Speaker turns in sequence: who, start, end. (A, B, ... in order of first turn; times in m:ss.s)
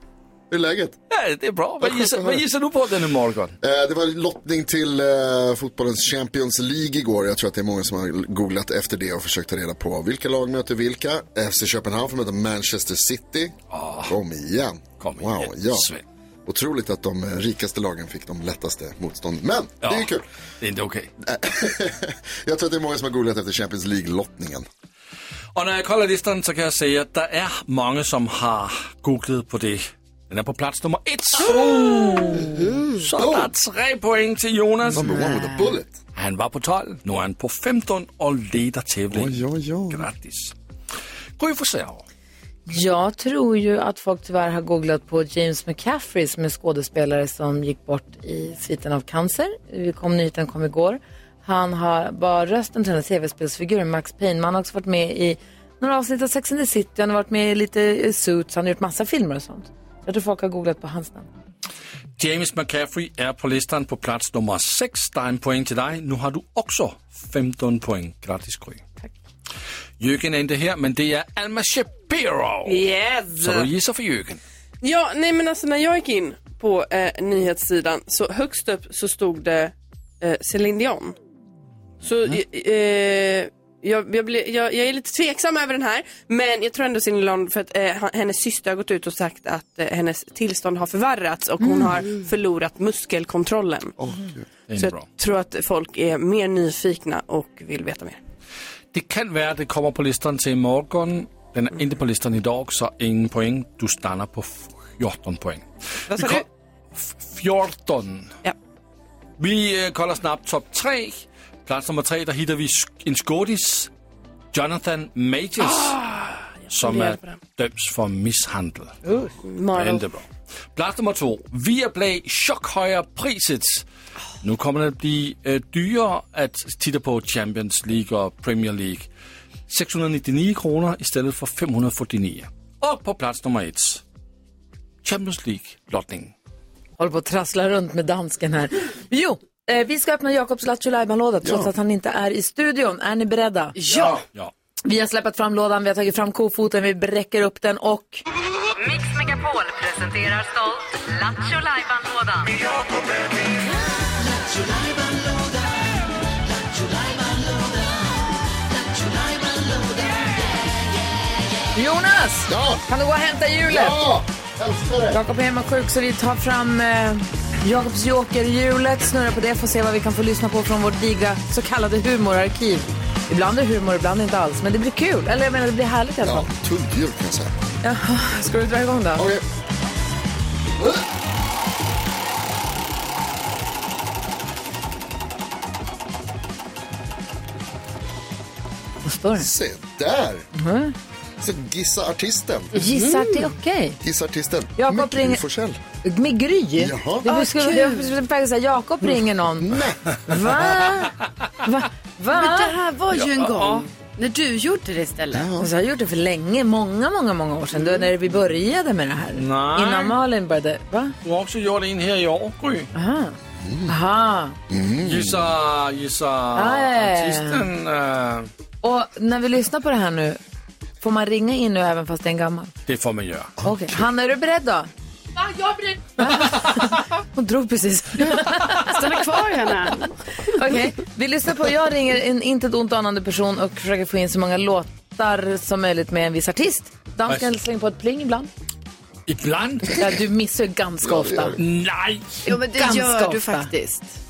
0:00.5-0:01.0 A
0:01.1-0:03.6 B
0:01.8-0:02.4 A
0:03.6-0:15.9 A
0:13.7-0:14.2 B
0:15.0-0:16.0 B
0:16.5-0:20.2 A
0:19.8-0:21.1 B
0:21.2-0:24.7 A
0:25.6-0:35.2 B
0:31.5-0:33.1 C
0:33.2-0:33.5 A
0:34.9-0:36.0 A
0:34.9-0:35.8 D
0:36.2-0:40.5 B
0:39.1-0:40.1 A
0:41.4-0:42.0 B
0:42.7-1:01.3 D
1:02.2-1:08.8 B
1:10.0-1:14.4 B
1:12.7-1:13.6 D
1:14.8-1:21.2 E
1:22.0-1:33.9 E
1:31.6-1:32.0 D
1:32.0-1:32.3 C
1:34.0-1:34.4 A
1:34.7-1:35.1 B
1:34.8-1:38.2 E
1:38.9-1:48.3 B
1:46.1-1:46.4 E
1:49.4-1:53.9 B
1:54.5-1:56.0 B
1:55.6-1:57.3 E
1:56.7-1:59.0 B
1:59.4-2:00.1 E
1:59.7-2:03.9 B
2:04.4-2:09.1 B
2:09.7-2:14.0 B
2:15.0-2:16.3 B
2:17.0-2:23.8 D
2:21.4-2:21.7 A
2:23.8-2:24.2 C
2:24.2-2:24.5 B
2:24.8-2:28.2 D
2:28.8-2:32.4 F
2:41.8-2:44.0 D
2:42.5-2:42.8 A
2:43.7-2:45.2 A
2:45.1-2:56.5 D
2:56.2-2:57.5 A
2:57.8-2:59.3 D
2:59.2-2:59.4 A
3:09.1-3:09.5 D
3:09.4-3:10.5 A
3:10.5-3:11.0 D
3:11.4-3:12.7 A
3:12.7-3:13.5 C
3:12.8-3:14.0 D
3:14.0-3:15.8 A
3:14.8-3:15.4 D
3:16.0-3:19.7 D
3:16.8-3:17.3 A
3:17.2-3:18.1 C
3:19.6-3:20.0 A
3:20.3-3:22.8 D
3:22.3-3:25.5 C
3:23.1-3:23.9 B
3:25.3-3:25.7 A
3:25.6-3:31.2 D
3:29.4-3:30.2 B
3:31.2-3:32.9 B
3:32.9-3:34.6 D
3:33.6-3:33.9 A
3:34.7-3:35.6 A
3:35.0-3:38.5 B
3:36.5-3:37.6 D
3:38.8-3:40.4 D
3:41.0-3:42.7 D
3:42.9-3:43.6 B
3:43.6-3:44.9 D
3:46.2-3:49.0 D
3:48.7-3:50.1 C
3:50.5-3:58.5 D
3:59.3-4:00.1 B
4:00.0-4:01.6 D
4:01.0-4:01.6 A
4:01.6-4:02.4 B
4:02.5-4:03.7 D
4:02.5-4:04.2 C